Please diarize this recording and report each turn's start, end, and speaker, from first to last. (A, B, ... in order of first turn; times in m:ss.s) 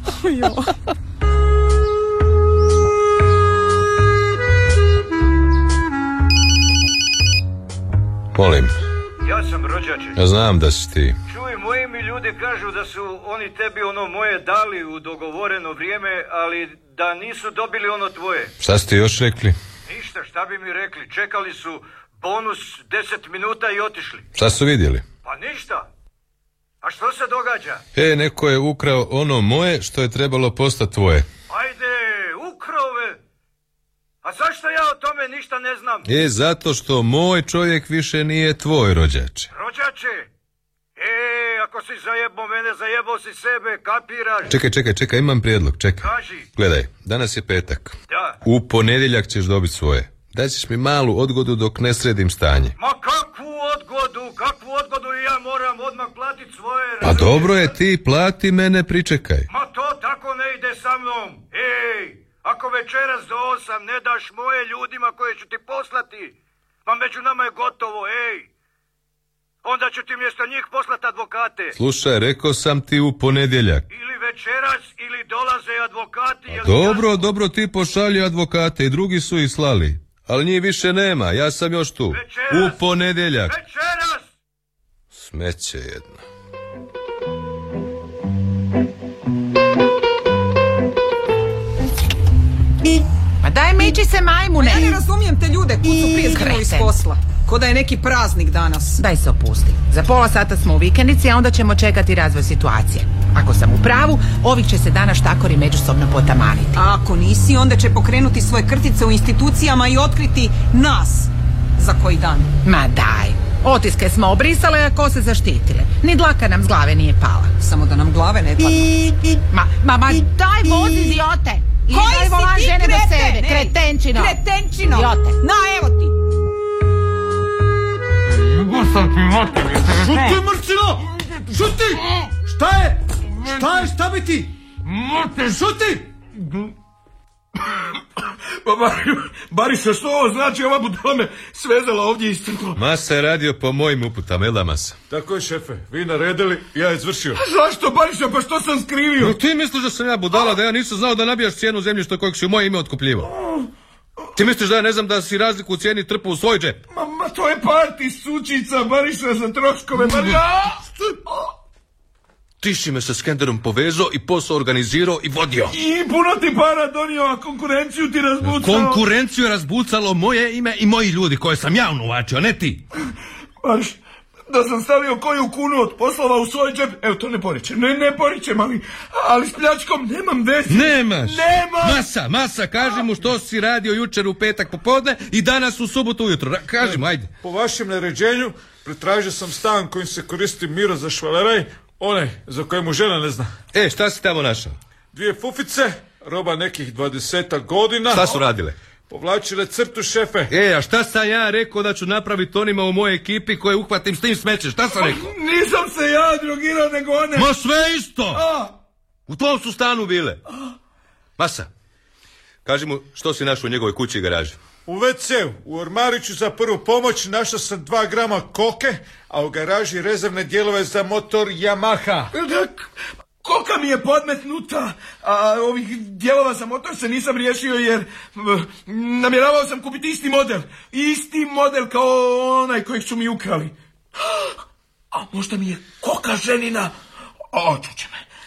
0:00.2-0:00.7 A
0:08.4-0:08.8 B
0:09.2-0:10.2 C
0:10.2-0:11.2 B
0:11.3-0:18.5 C
0:18.6-0:19.6 B
0:19.9-0:24.3 C
0:24.4-0:25.0 B
0:25.2-0:25.9 C
0:26.8-0:27.8 C
0:28.0-0:31.3 B
0:31.5-0:33.2 C
0:34.2-0:36.1 C
0:36.1-0:39.5 B
0:39.5-0:40.3 C
0:41.0-0:44.6 C
0:44.5-0:52.7 B
0:46.0-0:46.5 C
0:48.1-0:48.4 C
0:52.8-0:57.8 C
0:57.0-0:59.5 B
0:59.5-1:06.3 C
1:06.9-1:08.5 C
1:09.6-1:11.8 C
1:11.8-1:13.9 B
1:13.9-1:17.2 C
1:16.5-1:23.6 B
1:22.1-1:22.8 C
1:23.5-1:24.3 C
1:25.1-1:26.2 B
1:33.4-1:35.0 D
1:34.6-1:39.0 A
1:36.2-1:36.9 D
1:39.0-1:46.8 D
1:46.8-1:52.5 A
1:52.6-1:57.5 D
1:57.6-1:59.0 A
1:59.5-2:05.4 D
2:01.9-2:06.1 A
2:09.9-2:14.6 E
2:15.3-2:16.1 E
2:18.6-2:22.8 F
2:22.8-2:25.0 B
2:25.1-2:27.4 E
2:27.4-2:29.4 F
2:29.2-2:33.3 B
2:34.4-2:36.8 B
2:36.9-2:41.5 F
2:42.6-2:45.7 B
2:45.7-2:49.0 F
2:48.4-2:52.8 B
2:53.6-3:02.0 F
3:00.7-3:07.3 B
3:06.8-3:13.5 E
3:13.7-3:14.8 B
3:15.1-3:18.4 E
3:18.1-3:18.8 B
3:19.1-3:20.5 E
3:20.5-3:25.3 B
3:24.9-3:27.6 F
3:27.4-3:28.4 B
3:28.3-3:28.7 F
3:29.3-3:30.4 B
3:31.4-3:31.7 B
3:32.6-3:34.6 B
3:34.9-3:42.3 E
3:42.3-3:42.9 F
3:43.4-3:54.5 F
3:55.1-3:56.9 F
3:57.5-3:58.2 F